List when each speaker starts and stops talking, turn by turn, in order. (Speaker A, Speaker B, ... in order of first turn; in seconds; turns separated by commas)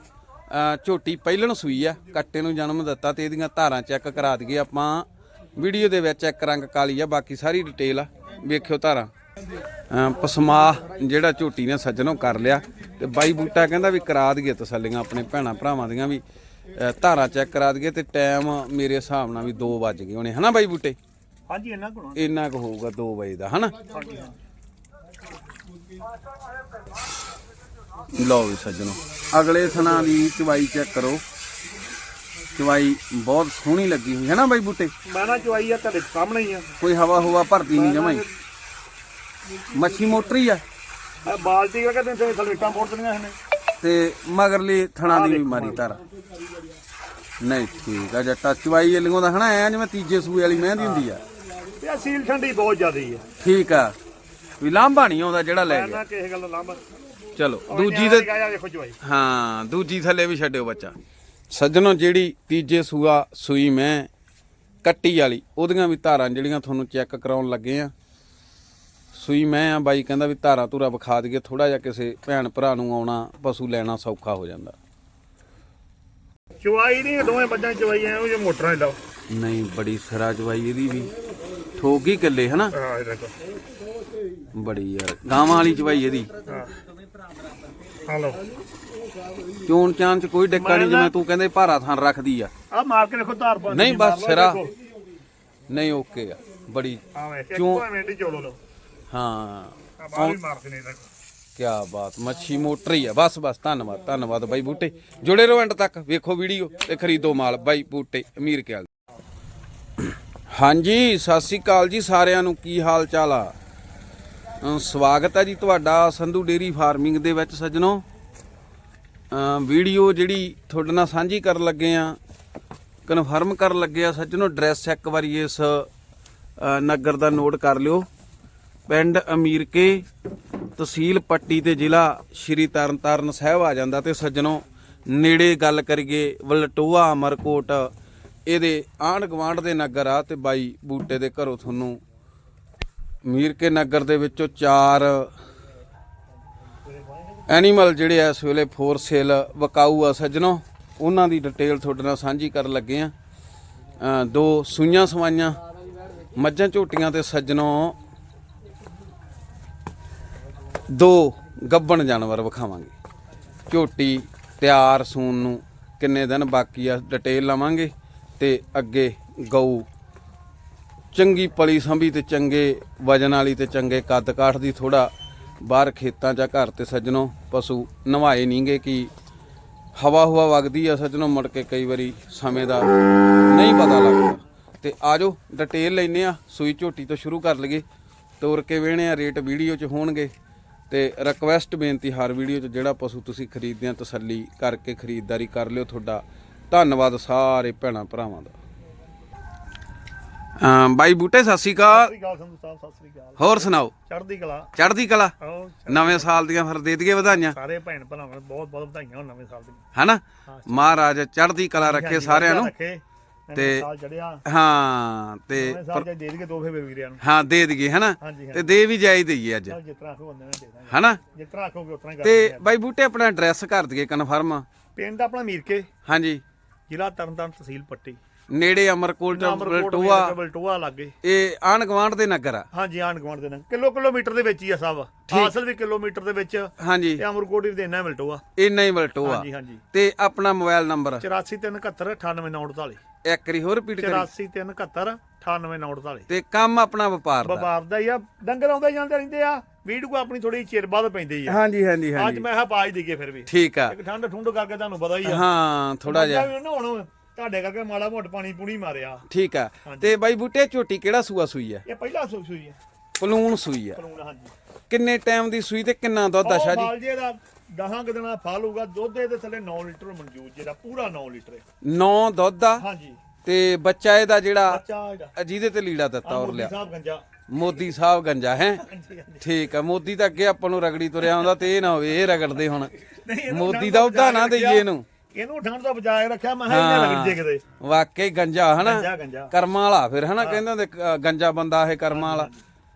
Speaker A: 0.5-9.1, Speaker A: 9.9-16.2, Speaker A: 16.7-20.9, Speaker B: 21.5-22.3, Speaker A: 22.1-23.7, Speaker B: 23.9-24.4, Speaker A: 28.1-31.2, Speaker B: 29.6-30.2, Speaker A: 32.5-34.9, Speaker B: 35.1-36.7, Speaker A: 36.8-38.2, Speaker B: 37.7-38.3, Speaker A: 39.7-40.6, Speaker B: 41.2-43.3, Speaker A: 43.8-46.0, Speaker B: 45.0-45.9, Speaker A: 47.4-51.2, Speaker B: 50.8-51.0, Speaker B: 51.8-53.2, Speaker A: 53.4-53.9, Speaker A: 54.6-56.0, Speaker B: 55.6-56.8, Speaker A: 57.4-58.3, Speaker B: 57.7-59.0, Speaker A: 59.0-61.0, Speaker A: 61.5-64.1, Speaker A: 64.8-67.9, Speaker A: 69.1-74.8, Speaker B: 76.6-79.0, Speaker A: 79.3-81.1, Speaker A: 81.8-82.7, Speaker B: 82.7-83.3, Speaker A: 84.5-86.3, Speaker B: 86.4-86.8, Speaker B: 88.1-88.5, Speaker A: 89.7-92.5, Speaker B: 90.5-91.1, Speaker B: 92.7-94.7, Speaker A: 93.7-94.6, Speaker A: 95.7-97.8, Speaker B: 97.1-98.6, Speaker A: 99.1-100.4, Speaker B: 100.0-101.1, Speaker A: 101.6-108.9, Speaker A: 110.5-113.5, Speaker A: 114.6-118.0, Speaker A: 119.3-122.2, Speaker A: 123.0-125.9, Speaker A: 126.6-128.1, Speaker A: 128.9-130.0, Speaker A: 130.8-137.9, Speaker A: 138.5-142.0, Speaker A: 143.2-145.3, Speaker B: 146.8-147.5, Speaker A: 147.5-153.1, Speaker A: 154.0-155.6, Speaker A: 156.2-158.0, Speaker A: 160.9-162.9, Speaker A: 163.7-169.8, Speaker A: 171.1-179.1, Speaker A: 179.9-182.9, Speaker A: 183.5-187.8, Speaker A: 188.4-190.3, Speaker A: 190.9-198.5, Speaker A: 200.6-202.1, Speaker B: 201.8-204.7, Speaker A: 203.4-203.9, Speaker A: 204.8-205.3, Speaker B: 205.4-206.3, Speaker A: 205.9-207.6, Speaker B: 207.3-209.8, Speaker A: 209.9-212.7, Speaker B: 210.4-211.0, Speaker B: 211.8-214.4, Speaker A: 213.5-213.8, Speaker A: 214.4-216.0, Speaker B: 215.5-217.2, Speaker A: 217.2-219.8, Speaker B: 218.2-218.7, Speaker B: 219.7-222.7, Speaker A: 220.9-221.2, Speaker A: 222.2-224.6, Speaker B: 224.9-225.9, Speaker A: 226.0-226.4, Speaker B: 226.9-228.2, Speaker A: 228.5-230.3, Speaker B: 229.3-231.1, Speaker A: 231.2-232.7, Speaker B: 232.7-238.4, Speaker A: 235.3-235.5, Speaker A: 236.8-237.2, Speaker A: 238.6-241.2, Speaker B: 239.2-239.8, Speaker B: 241.2-243.0, Speaker A: 243.2-244.3, Speaker B: 244.0-246.3, Speaker A: 246.3-247.7, Speaker B: 247.4-251.6, Speaker A: 251.5-252.4, Speaker B: 252.2-255.4, Speaker A: 253.5-253.9, Speaker A: 255.2-256.5, Speaker B: 256.1-259.2, Speaker A: 259.3-261.8, Speaker B: 259.9-260.1, Speaker B: 261.9-262.8, Speaker A: 263.2-264.0, Speaker B: 263.9-264.5, Speaker A: 264.9-266.9, Speaker B: 266.4-271.6, Speaker A: 271.8-272.8, Speaker B: 272.8-273.2, Speaker A: 273.4-274.8, Speaker B: 274.7-275.3, Speaker A: 275.4-276.7, Speaker B: 276.2-277.2, Speaker A: 277.5-278.8, Speaker B: 278.7-279.4, Speaker A: 279.4-282.9, Speaker B: 283.1-287.6, Speaker A: 283.5-285.1, Speaker A: 286.7-292.5, Speaker B: 288.8-289.5, Speaker B: 292.1-292.6